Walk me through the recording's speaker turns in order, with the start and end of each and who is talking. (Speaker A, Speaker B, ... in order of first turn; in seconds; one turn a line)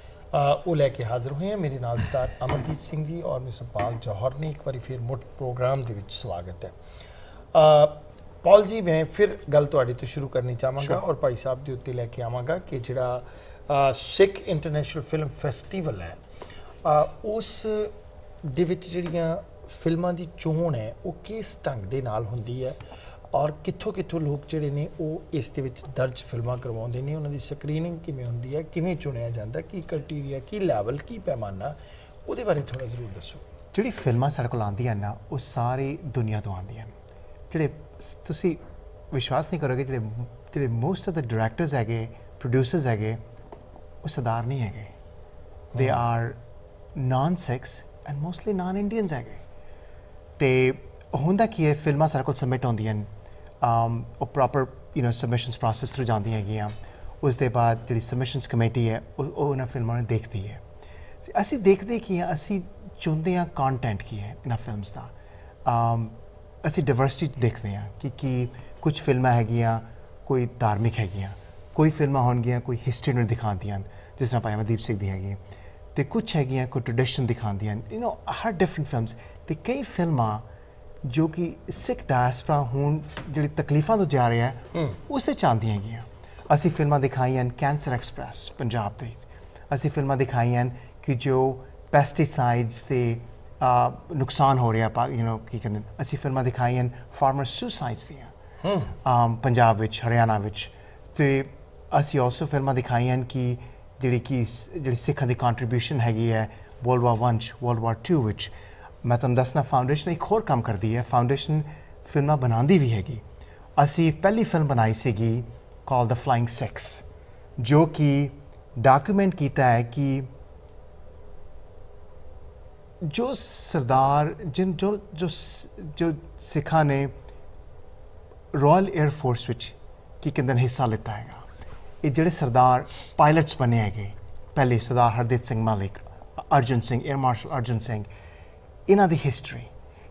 Speaker A: 0.3-6.7
Speaker A: 7.5-16.2
Speaker A: 16.8-22.8
Speaker A: 23.3-33.4
Speaker B: 33.7-36.9
Speaker B: 37.5-43.2
Speaker B: 44.0-44.9
Speaker A: 45.7-46.0
Speaker B: 45.8-46.4
Speaker B: 46.9-49.4
Speaker B: 50.4-53.1
Speaker B: 53.6-60.6
Speaker B: 61.2-65.1
Speaker B: 65.6-75.4
Speaker B: 75.9-80.5
Speaker B: 81.0-98.3
Speaker A: 98.6-98.9
Speaker B: 99.0-113.2
Speaker B: 113.8-117.0
Speaker B: 117.6-120.3
Speaker B: 123.0-127.1
Speaker B: 128.5-131.4
Speaker B: 132.0-138.1
Speaker B: 138.9-139.7